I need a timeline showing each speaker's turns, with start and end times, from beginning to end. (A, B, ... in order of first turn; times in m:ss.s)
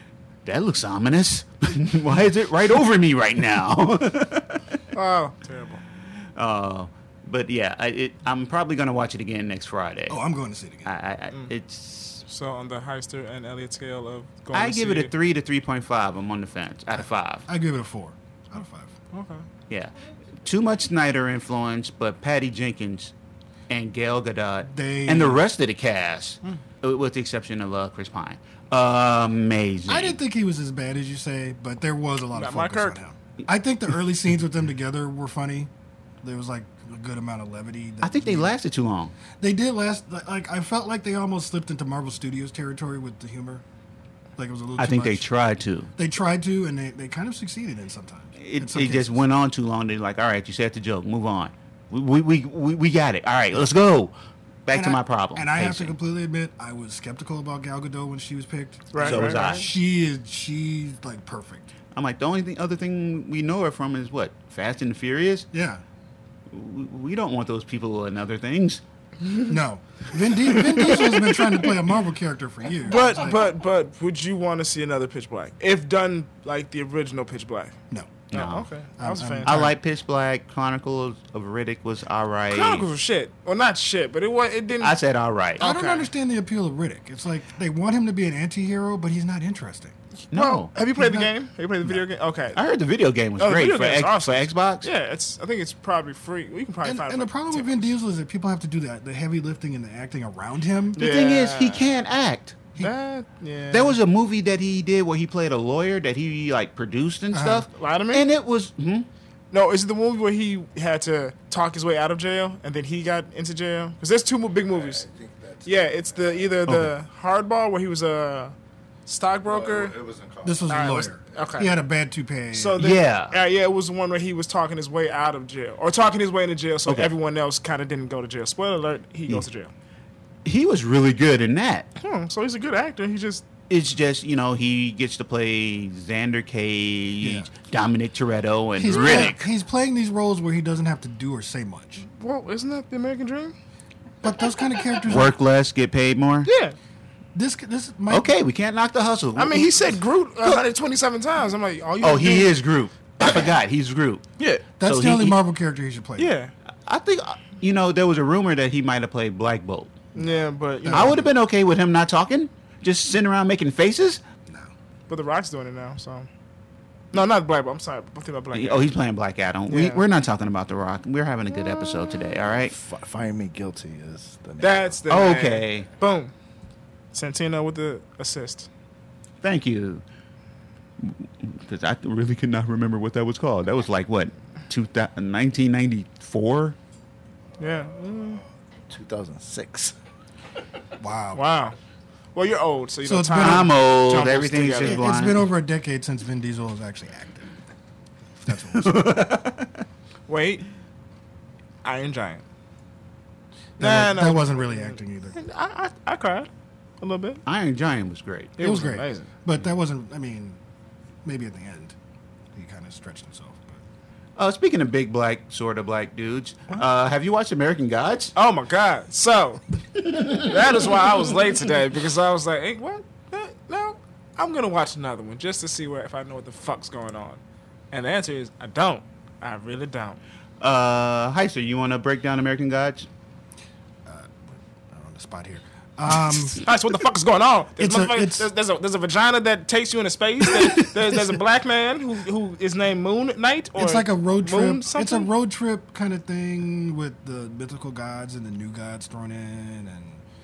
0:00.5-0:04.6 A
0:04.9-0:05.8 B
0:06.4-0:10.2 A
0:10.1-0:10.9 C
0:10.8-0:12.2 A
0:12.2-0:15.1 B
0:14.5-0:17.5 A
0:17.5-0:19.0 C
0:19.1-0:19.5 B
0:20.4-0:23.1 A
0:23.7-0:30.2 A
0:24.7-0:25.4 C
0:29.9-0:35.7 C
0:32.3-0:33.0 B
0:36.2-0:38.6 C
0:38.0-0:39.1 A
0:39.4-0:43.6 C
0:44.4-0:45.3 C
0:44.8-0:45.9 A
0:46.0-0:49.2 C
0:48.4-0:54.1 A
0:54.7-0:55.9 A
0:54.7-1:01.7 C
0:58.9-0:59.6 B
0:59.0-0:59.7 A
1:01.9-1:05.5 A
1:05.5-1:05.8 C
1:06.5-1:08.8 A
1:09.5-1:13.4 C
1:10.9-1:11.6 B
1:12.9-1:17.8 B
1:17.9-1:18.2 C
1:18.3-1:18.7 A
1:18.3-1:19.6 B
1:19.0-1:19.8 C
1:19.4-1:22.9 A
1:22.5-1:25.0 B
1:24.8-1:25.6 A
1:25.6-1:26.1 B
1:25.6-1:30.0 C
1:30.2-1:32.6 B
1:30.3-1:30.7 A
1:30.8-1:31.3 C
1:32.5-1:34.9 A
1:33.4-1:37.9 B
1:36.8-1:41.0 C
1:41.0-1:41.9 B
1:41.0-1:42.7 A
1:42.8-1:44.0 B
1:43.7-1:49.1 A
1:47.3-1:47.7 C
1:47.7-1:48.2 B
1:49.5-1:55.0 B
1:54.7-1:56.6 D
1:55.6-1:58.6 B
1:59.1-1:59.9 B
1:59.5-2:01.0 D
2:00.4-2:02.8 C
2:00.7-2:01.7 B
2:02.5-2:09.7 B
2:02.8-2:03.3 A
2:06.9-2:07.1 A
2:10.4-2:11.9 A
2:12.0-2:13.4 B
2:13.7-2:19.4 A
2:17.2-2:17.5 C
2:18.8-2:22.0 C
2:18.9-2:19.3 B
2:22.0-2:23.6 B
2:24.2-2:25.3 C
2:25.1-2:26.5 A
2:26.4-2:26.8 B
2:27.4-2:28.3 C
2:28.1-2:30.6 A
2:29.4-2:32.6 B
2:32.0-2:34.2 A
2:34.8-2:36.4 C
2:34.8-2:35.4 A
2:36.2-2:36.5 B
2:36.9-2:40.0 A
2:40.2-2:41.2 B
2:40.8-2:41.3 C
2:40.9-2:44.2 A
2:45.1-2:46.3 B
2:47.1-2:48.9 B
2:48.5-2:52.8 A
2:49.7-2:50.0 B
2:52.5-2:55.0 D
2:54.6-2:56.3 B
2:55.1-2:55.9 A
2:57.1-2:58.7 B
2:59.4-3:00.0 A
3:01.0-3:06.8 A
3:07.6-3:08.4 B
3:08.9-3:10.0 D
3:11.0-3:11.4 C
3:11.3-3:11.8 B
3:12.3-3:15.1 B
3:13.0-3:13.7 C
3:13.4-3:15.5 A
3:14.8-3:17.5 C
3:18.4-3:19.1 C
3:18.7-3:19.8 A
3:20.3-3:20.6 B
3:21.8-3:22.4 B
3:23.8-3:25.4 C
3:23.8-3:27.4 B
3:27.5-3:28.6 A
3:28.6-3:29.3 B
3:28.6-3:30.6 C
3:31.2-3:32.0 C
3:32.5-3:33.8 C
3:34.4-3:38.3 A
3:38.4-3:39.6 B
3:40.1-3:40.5 A
3:40.2-3:47.4 B
3:47.9-3:50.2 B
3:50.6-3:53.1 A
3:54.0-3:56.6 C
3:56.6-4:05.3 B
3:57.8-3:58.5 C
4:03.8-4:10.2 C